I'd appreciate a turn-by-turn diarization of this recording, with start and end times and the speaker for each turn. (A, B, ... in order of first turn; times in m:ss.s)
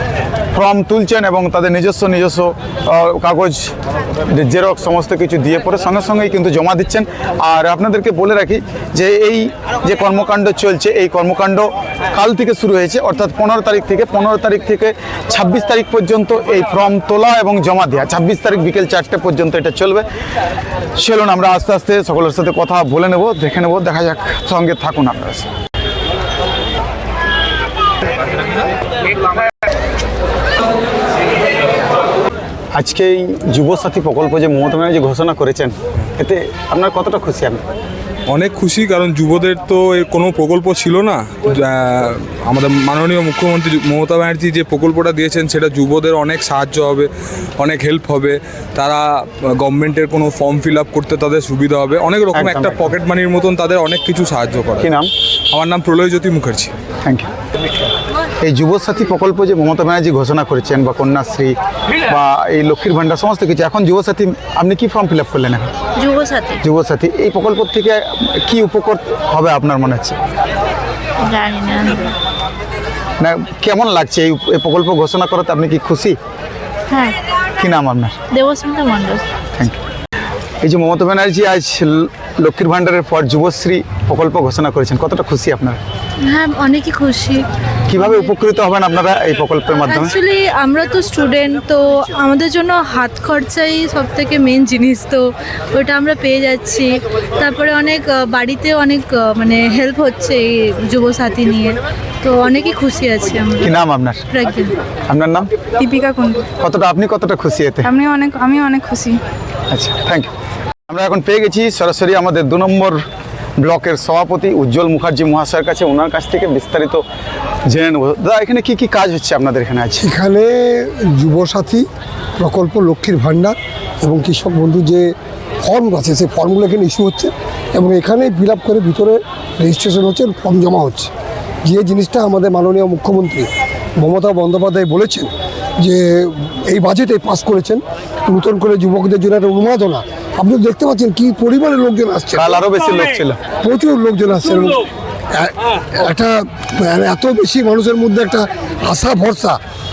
0:00.5-0:03.7 A
0:04.3-0:20.0 A
0:21.0-0:25.5 A
0:32.8-0:37.6 A
0:38.3-0:54.9 B
0:52.3-0:52.9 A
0:54.8-0:55.1 A
0:55.5-0:56.7 B
0:58.4-1:01.5 A
1:02.0-1:05.7 A
1:06.0-1:06.6 C
1:06.6-1:10.2 A
1:11.2-1:12.1 C
1:13.2-1:16.2 A
1:16.9-1:17.2 C
1:17.6-1:18.2 A
1:18.3-1:19.2 C
1:20.6-1:25.8 A
1:26.2-1:27.4 C
1:27.9-1:30.1 A
1:28.0-1:28.3 C
1:29.8-1:43.7 C
1:43.6-1:44.3 A
1:44.3-1:44.8 C
1:45.1-1:45.5 A
1:45.8-1:46.4 D
1:46.6-1:47.9 A
1:47.8-1:49.2 D
1:49.7-1:50.3 A
1:50.9-1:53.0 A
1:53.6-1:57.0 A
1:57.7-2:00.1 A
2:00.0-2:01.9 E
2:02.4-2:11.1 E
2:11.6-2:13.5 E
2:14.0-2:22.6 E
2:22.4-2:23.4 A
2:23.6-2:29.6 E